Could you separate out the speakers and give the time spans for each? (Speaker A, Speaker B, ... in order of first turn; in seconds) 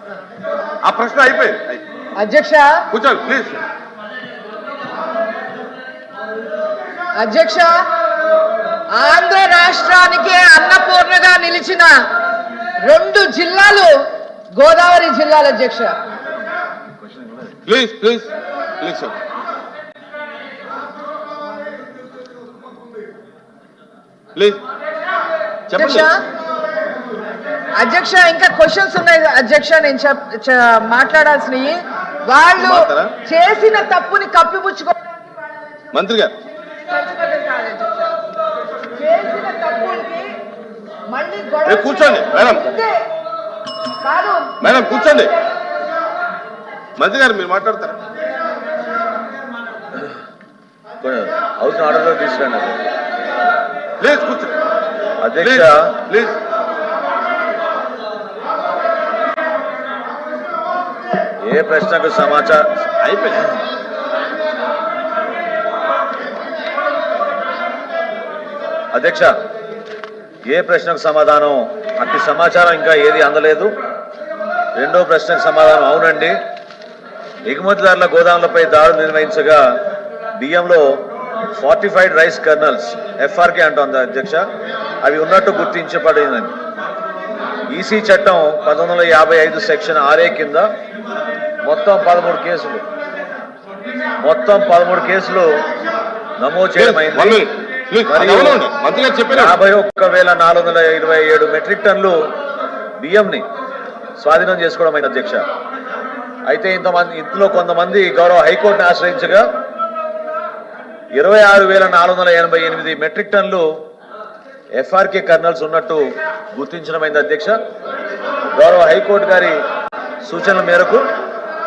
Speaker A: 0.8-1.8, 2.9-3.6, 17.6-19.1, 24.4-24.6, 25.7-26.1, 32.6-33.1, 35.9-36.3, 41.7-42.6, 44.6-45.3, 47.0-48.0, 54.0-54.5, 55.4-56.4, 63.0-63.5, 96.8-99.6
Speaker B: 2.2-2.7, 7.2-7.8, 8.9-11.9, 12.8-13.9, 14.6-15.9, 25.8-26.2, 27.8-35.9, 36.6-38.2, 38.9-40.3, 41.1-43.0, 44.0-44.5
Speaker C: 51.0-52.8, 55.2-55.9, 61.4-62.7, 68.9-69.3, 70.5-73.8, 74.8-76.3, 77.5-79.7, 80.3-80.9, 81.5-84.5, 85.0-86.5, 87.7-90.7, 91.6-92.8, 94.2-95.5, 96.4-97.5, 98.1-98.6, 99.3-102.2, 103.0-103.5, 104.2-105.5, 106.5-109.5, 111.1-113.7, 114.8-117.6, 118.5-119.5, 120.2-121.0